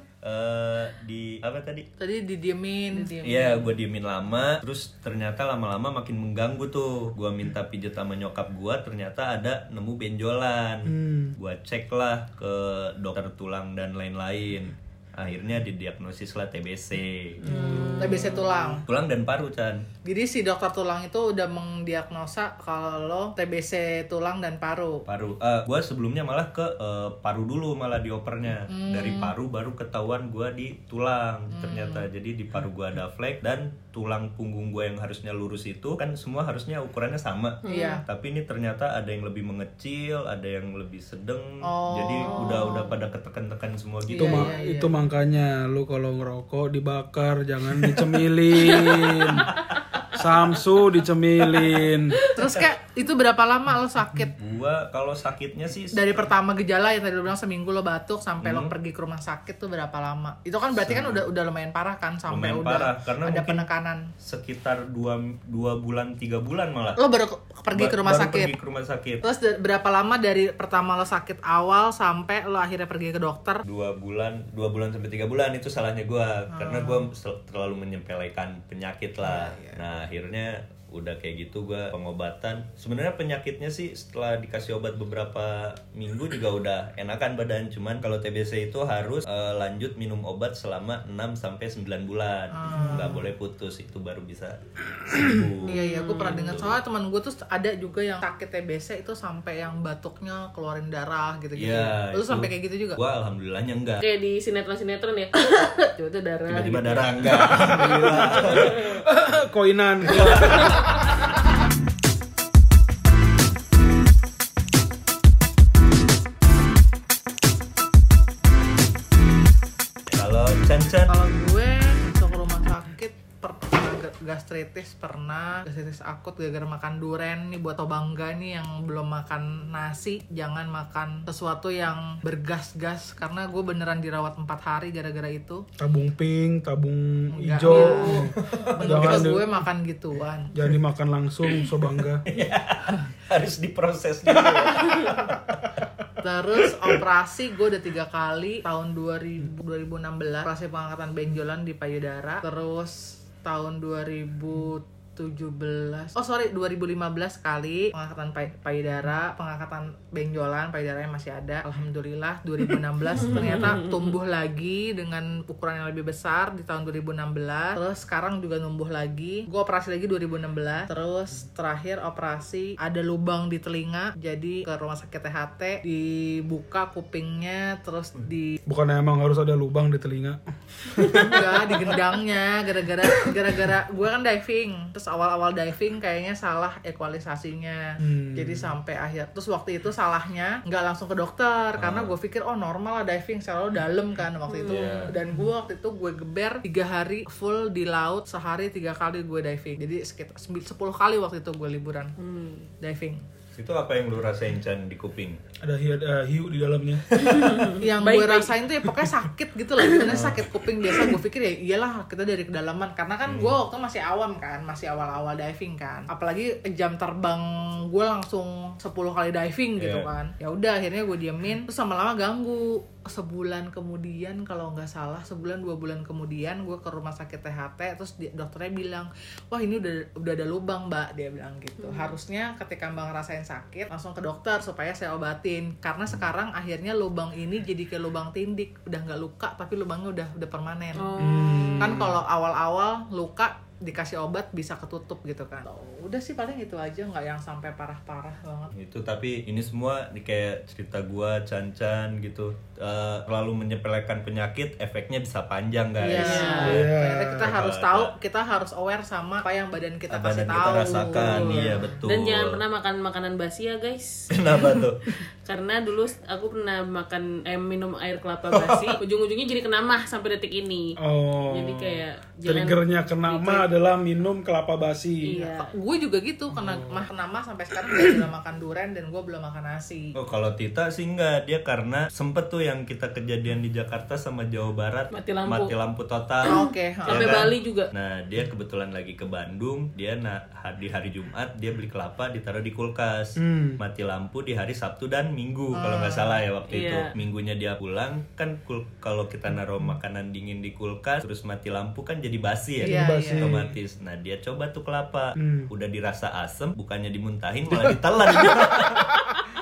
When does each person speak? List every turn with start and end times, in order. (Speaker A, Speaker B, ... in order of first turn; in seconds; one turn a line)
Speaker A: 0.2-1.9
Speaker B: 2.0-3.3
Speaker C: 2.9-3.6
Speaker A: 3.2-17.4
Speaker D: 10.9-11.3
Speaker D: 17.4-18.4
Speaker C: 17.4-18.5
Speaker B: 18.0-18.8
Speaker A: 18.9-19.9
Speaker B: 20.1-25.0
Speaker A: 25.1-44.5
Speaker B: 28.7-29.3
Speaker B: 31.5-32.1
Speaker C: 37.6-38.0
Speaker B: 37.7-38.0
Speaker B: 41.6-42.9
Speaker C: 42.3-42.9
Speaker B: 44.1-45.0
Speaker D: 44.2-49.5
Speaker C: 48.7-49.0
Speaker D: 50.1-52.2
Speaker B: 52.2-54.4
Speaker A: 54.4-56.3
Speaker B: 55.9-64.1
Speaker A: 58.4-58.7
Speaker A: 60.8-61.3
Speaker A: 62.3-63.7
Speaker A: 64.2-67.0
Speaker B: 67.0-68.5
Speaker A: 67.7-69.2
Speaker B: 69.2-73.6
Speaker A: 73.7-96.8
Speaker B: 76.5-77.0
Speaker B: 79.2-79.8
Speaker B: 92.5-93.3
Speaker C: 95.6-96.6
Speaker B: 95.7-103.0
Speaker A: 101.6-104.0
Speaker C: 104.0-108.7
Speaker A: 106.5-108.9
Speaker D: 107.8-111.0
Speaker A: 120.1-121.1
Speaker B: 121.1-135.6
Speaker D: 135.8-139.4
Speaker B: 137.3-140.5
Speaker C: 137.6-138.3
Speaker A: 138.5-139.3
Speaker D: 140.5-142.2
Speaker A: 142.3-145.5
Speaker B: 146.2-178.6
Speaker C: 163.1-164.2
Speaker A: 163.3-163.6
Speaker D: 178.7-180.4
Speaker C: 181.1-181.4
Speaker B: 181.1-202.2
Speaker D: 188.0-188.7
Speaker A: 191.8-192.1
Speaker C: 194.5-195.1
Speaker A: 194.7-195.2
Speaker C: 202.2-202.7
Speaker B: 202.8-203.2
Speaker A: 203.6-205.4
Speaker D: 205.6-207.6
Speaker C: 207.1-208.5
Speaker B: 207.8-248.7
Speaker C: 209.8-210.1
Speaker A: 210.1-210.5
Speaker A: 213.2-213.6
Speaker A: 219.8-220.1
Speaker C: 231.8-232.2
Speaker C: 240.9-242.0
Speaker D: 241.2-242.2
Speaker A: 248.7-258.1
Speaker B: 256.0-262.0
Speaker C: 256.1-256.8
Speaker D: 256.6-257.5
Speaker A: 260.1-262.6
Speaker C: 260.7-264.3
Speaker A: 264.3-265.1
Speaker C: 265.4-270.9
Speaker A: 268.5-269.0
Speaker D: 271.0-275.4
Speaker C: 271.5-273.7
Speaker C: 275.2-275.7
Speaker B: 275.3-280.1
Speaker D: 276.6-277.0
Speaker A: 280.1-286.6
Speaker C: 285.1-285.7
Speaker C: 286.4-287.9
Speaker B: 286.4-287.4
Speaker A: 287.1-309.2
Speaker D: 293.4-293.8
Speaker B: 295.7-296.4
Speaker C: 296.7-297.1
Speaker B: 302.8-303.6
Speaker D: 302.8-303.6
Speaker D: 305.4-305.7